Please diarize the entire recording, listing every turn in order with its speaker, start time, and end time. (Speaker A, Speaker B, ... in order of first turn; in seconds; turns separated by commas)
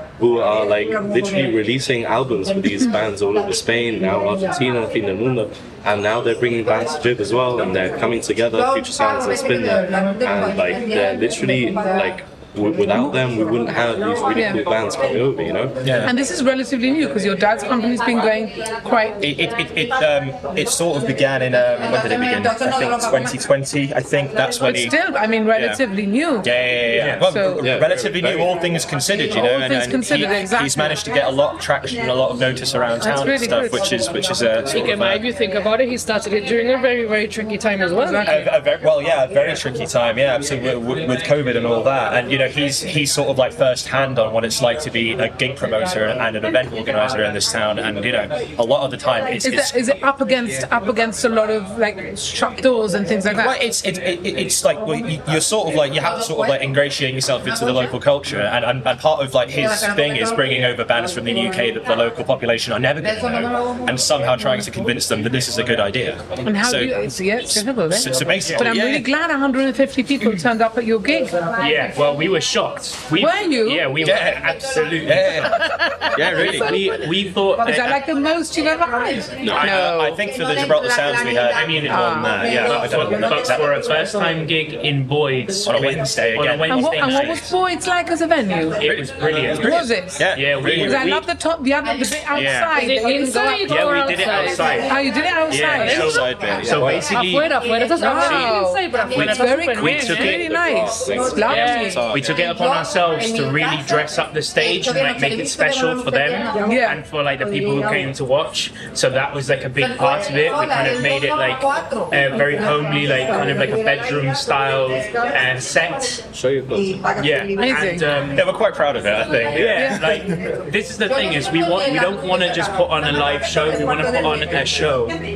Speaker A: 0.2-15.8, Speaker B: 14.3-14.6, Speaker C: 15.8-16.1, Speaker B: 16.0-19.2, Speaker C: 19.2-24.9, Speaker B: 24.6-26.6, Speaker C: 25.5-25.8, Speaker C: 26.4-35.2, Speaker D: 26.9-27.2, Speaker B: 27.2-27.7, Speaker A: 27.6-28.6, Speaker B: 29.3-31.0, Speaker B: 33.0-33.9, Speaker E: 34.7-38.4, Speaker B: 38.0-38.5, Speaker C: 38.2-49.8, Speaker B: 49.4-53.6, Speaker C: 53.3-69.1, Speaker B: 66.4-71.4, Speaker D: 68.4-68.7, Speaker D: 71.6-75.6, Speaker B: 73.2-74.0, Speaker C: 74.0-76.8, Speaker B: 75.5-76.8, Speaker D: 76.3-78.0, Speaker B: 77.6-80.2, Speaker A: 79.4-79.7, Speaker C: 79.5-83.7, Speaker D: 81.5-87.5, Speaker B: 81.9-82.5, Speaker C: 85.6-87.4, Speaker B: 86.7-88.8, Speaker D: 88.8-91.2, Speaker C: 88.8-91.2, Speaker B: 89.5-96.2, Speaker D: 92.3-92.7, Speaker E: 92.7-94.9, Speaker D: 93.6-97.5, Speaker C: 95.8-96.8, Speaker A: 96.0-97.2, Speaker E: 97.1-100.3, Speaker B: 98.0-102.0, Speaker D: 98.1-98.5, Speaker D: 99.1-100.5, Speaker A: 100.3-102.3, Speaker E: 101.5-102.0, Speaker D: 101.5-116.2, Speaker C: 101.6-102.3, Speaker B: 106.6-107.0, Speaker A: 116.3-117.0, Speaker D: 117.2-118.5, Speaker B: 117.6-118.0, Speaker C: 118.3-120.2, Speaker D: 119.5-125.2, Speaker B: 119.7-120.0